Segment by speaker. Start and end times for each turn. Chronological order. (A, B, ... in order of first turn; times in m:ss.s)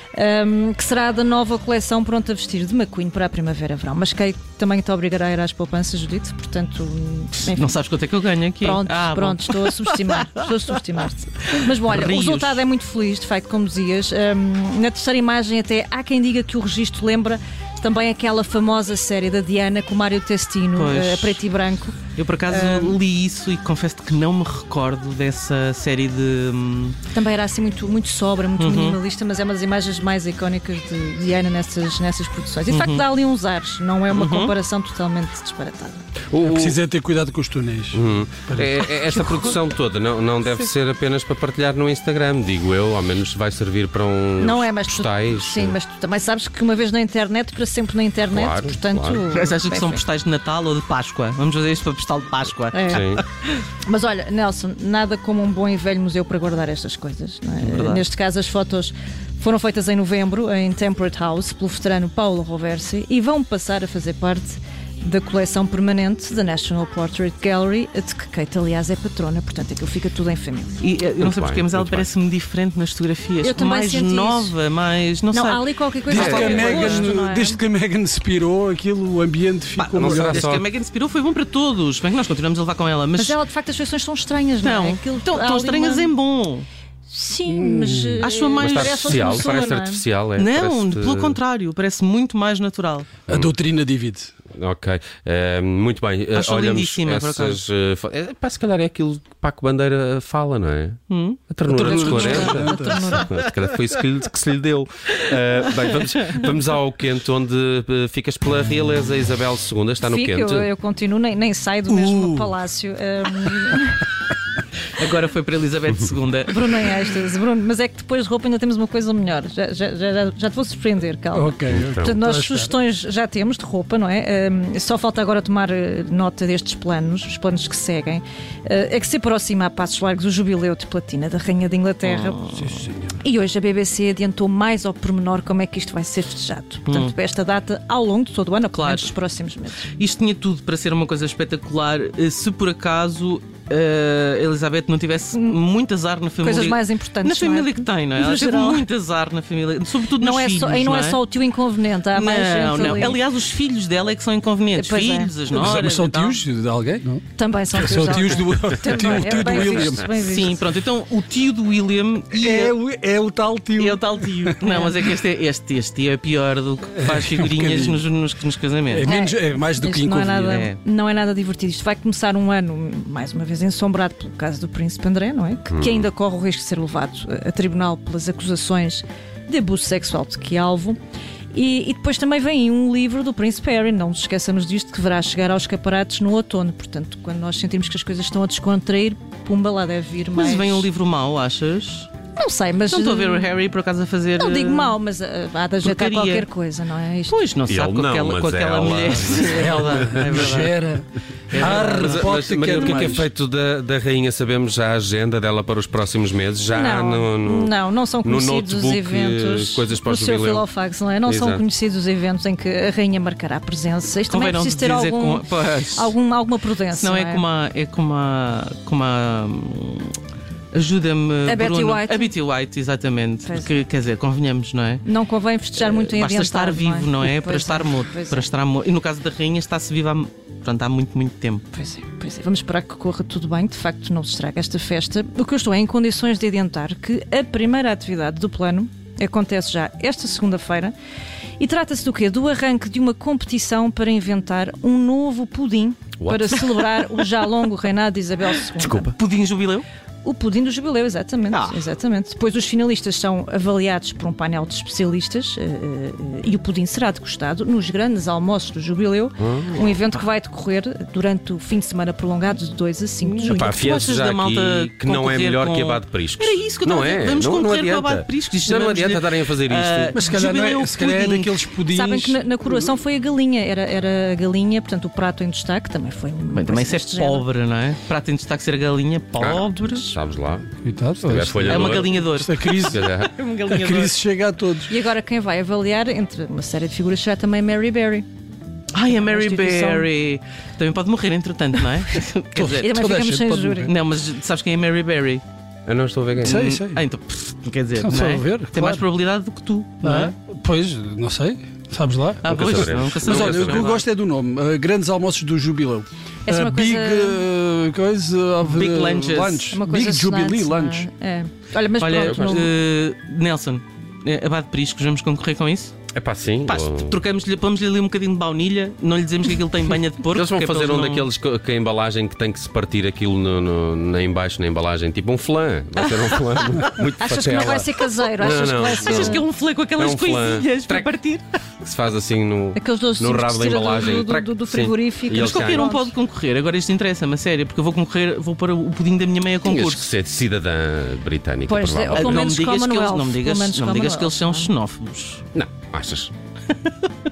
0:00.2-0:07.8 A
0:07.4-0:10.3 B
0:08.6-0:23.0 A
0:11.6-0:12.6 B
0:20.8-0:21.4 B
0:22.2-0:27.0 B
0:27.1-0:36.0 A
0:28.6-0:29.0 B
0:32.7-0:33.0 B
0:34.1-0:34.5 B
0:36.3-0:36.8 C
0:36.4-0:39.4 D
0:37.9-0:45.8 C
0:44.4-0:50.0 A
0:48.3-0:49.3 C
0:49.3-0:53.2 B
0:52.7-0:53.1 A
0:52.9-0:53.2 C
0:53.8-1:10.8 A
0:57.6-0:58.0 B
1:10.8-1:17.1 B
1:11.2-1:12.1 C
1:13.4-1:14.5 A
1:15.3-1:17.6 A
1:16.1-1:20.5 D
1:16.1-1:16.8 C
1:19.8-1:23.4 B
1:20.0-1:20.6 C
1:23.2-1:26.1 A
1:24.6-1:26.7 B
1:27.1-1:30.0 A
1:27.5-1:28.3 D
1:28.2-1:29.8 B
1:28.6-1:31.4 C
1:30.4-1:33.1 B
1:33.3-1:34.3 D
1:34.5-1:50.7 C
1:36.3-1:37.7 B
1:41.1-1:41.4 B
1:41.7-1:43.3 A
1:41.7-1:43.0 D
1:45.9-1:46.5 B
1:50.0-1:54.0 A
1:52.1-1:52.5 B
1:55.0-1:56.9 B
1:56.5-2:12.4 A
2:01.3-2:02.7 D
2:01.7-2:02.1 C
2:12.0-2:12.9 B
2:12.6-2:13.2 D
2:13.2-2:19.9 A
2:16.9-2:17.1 B
2:18.7-2:19.1 B
2:20.0-2:31.2 B
2:26.4-2:28.9 A
2:30.2-2:33.2 A
2:32.1-2:36.4 B
2:34.7-2:35.4 A
2:35.5-2:40.1 D
2:37.4-2:40.6 A
2:39.4-2:42.7 B
2:42.3-2:44.6 D
2:43.8-2:49.1 B
2:44.6-2:44.9 A
2:47.0-2:48.1 D
2:48.9-2:50.6 D
2:49.0-3:01.0 A
2:50.5-2:50.8 B
2:55.7-2:56.1 C
3:01.5-3:10.9 A
3:10.3-3:12.1 B
3:12.4-3:13.6 A
3:12.9-3:15.0 B
3:14.4-3:17.4 A
3:15.8-3:16.5 B
3:17.3-3:20.8 B
3:17.7-3:20.4 C
3:19.1-3:23.3 D
3:21.5-3:23.1 B
3:21.6-3:30.7 C
3:26.7-3:37.4 A
3:31.2-3:31.6 C
3:34.3-3:36.1 B
3:36.9-3:40.2 B
3:40.7-3:45.0 B
3:41.4-3:42.4 A
3:43.5-3:43.7 A
3:45.0-3:48.5 A
3:45.8-3:51.6 B
3:51.7-4:00.9 A
4:01.6-4:09.1 A
4:06.2-4:06.7 C
4:08.8-4:09.1 C
4:08.9-4:09.9 B
4:10.2-4:23.8 A
4:11.5-4:11.8 B
4:19.4-4:20.0 C
4:23.3-4:30.2 C
4:23.4-4:31.6 B
4:30.1-4:32.9 D
4:31.9-4:37.5 A
4:36.5-4:40.1 B
4:39.4-4:40.7 C
4:40.8-4:43.1 D
4:41.2-4:42.2 C
4:41.7-4:44.2 B
4:42.9-4:43.3 C
4:43.7-4:45.0 D
4:44.9-4:48.3 A
4:48.9-4:53.0 B
4:49.1-4:50.1 A
4:52.6-4:53.9 D
4:52.8-4:53.9 A
4:53.9-4:55.4 B
4:55.9-4:56.6 C
4:56.4-4:57.0 D
4:56.4-5:00.3 B
4:58.0-4:59.0 D
5:00.0-5:11.1 D
5:02.4-5:04.0 B
5:02.4-5:04.0 C
5:06.5-5:07.4 A
5:08.6-5:09.7 B
5:09.7-5:12.7 A
5:12.0-5:16.0 B
5:12.2-5:12.7 C
5:16.1-5:17.2 C
5:16.6-5:21.3 B
5:20.3-5:29.4 C
5:27.2-5:29.4 A
5:28.9-5:31.4 B
5:30.0-5:31.1 C
5:31.8-5:35.9 C
5:32.7-5:36.1 A
5:35.4-5:40.1 B
5:39.6-5:42.5 C
5:41.7-5:44.7 A
5:42.1-5:45.4 B
5:45.5-5:46.3 C